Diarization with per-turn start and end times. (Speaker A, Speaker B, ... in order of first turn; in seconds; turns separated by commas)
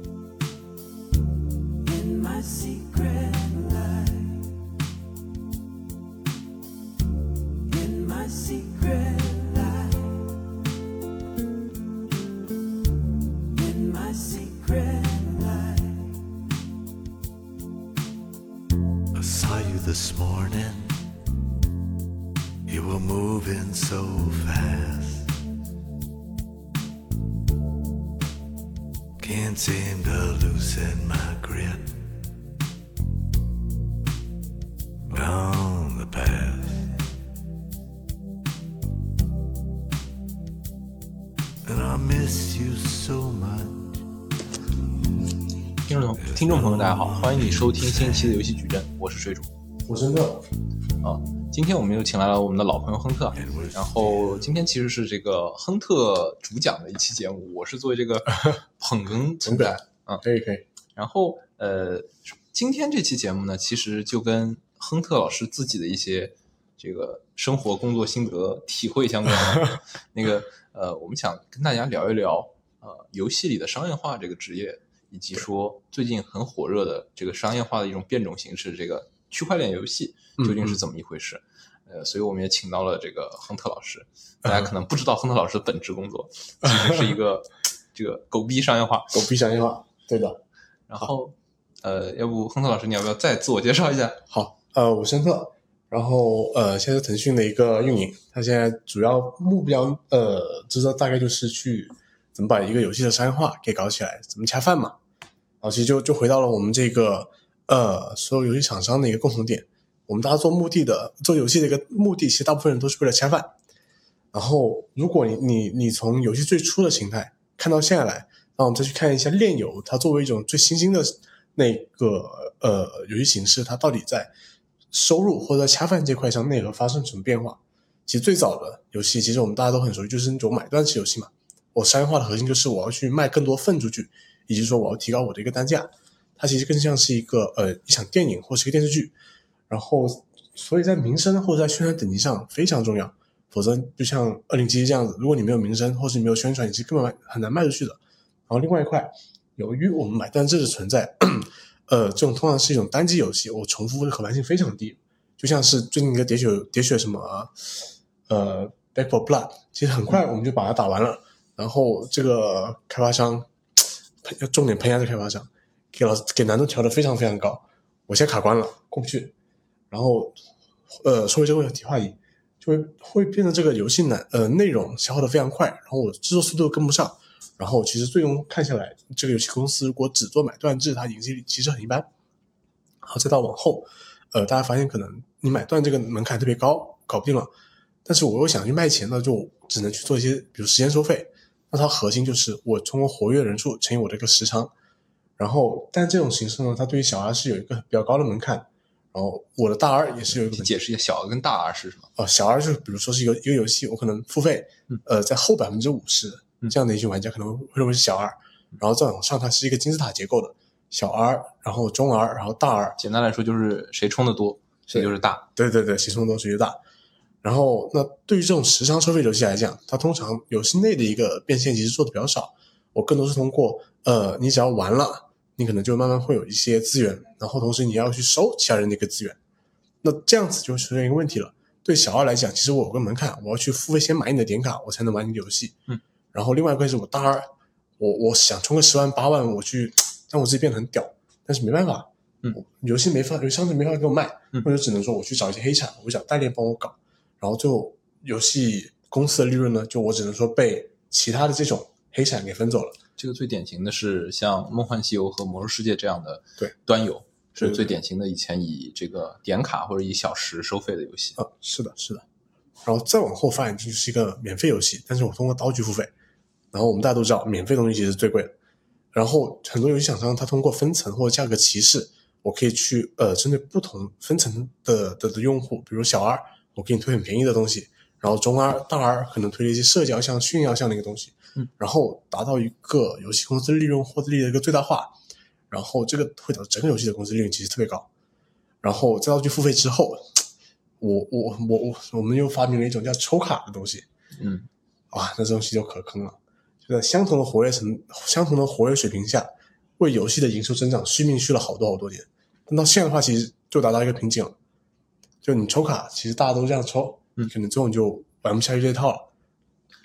Speaker A: 1.8-4.5, Speaker A: 7.7-10.3, Speaker A: 13.5-16.1, Speaker A: 19.1-21.0, Speaker A: 22.7-25.3, Speaker A: 29.2-32.0, Speaker A: 35.1-36.9, Speaker A: 41.6-44.0, Speaker B: 45.9-49.5, Speaker A: 46.1-48.4, Speaker C: 49.9-50.4, Speaker B: 51.0-60.2, Speaker A: 53.4-54.4, Speaker C: 59.4-60.6, Speaker B: 61.0-89.2, Speaker C: 80.4-80.8, Speaker C: 86.6-87.0, Speaker C: 89.1-90.4, Speaker B: 90.9-94.2, Speaker C: 94.3-105.0, Speaker C: 105.6-113.5, Speaker C: 114.3-124.3, Speaker C: 124.9-139.1, Speaker C: 139.7-169.3, Speaker C: 169.9-170.4, Speaker C: 170.9-182.1, Speaker C: 183.0-187.5, Speaker C: 188.0-194.7, Speaker C: 195.4-200.8, Speaker B: 200.3-202.1, Speaker C: 202.2-212.9, Speaker B: 213.0-215.5, Speaker C: 214.9-216.8, Speaker C: 217.4-229.4, Speaker C: 230.0-235.8, Speaker C: 236.3-237.5, Speaker C: 238.0-253.0, Speaker B: 253.2-261.4, Speaker C: 257.6-258.0, Speaker C: 261.4-262.2, Speaker C: 262.8-266.1, Speaker C: 266.7-268.5, Speaker C: 269.1-285.1, Speaker C: 285.7-288.1, Speaker C: 288.8-290.4, Speaker C: 291.0-294.1, Speaker B: 294.4-294.7, Speaker C: 295.1-304.5, Speaker C: 305.4-309.3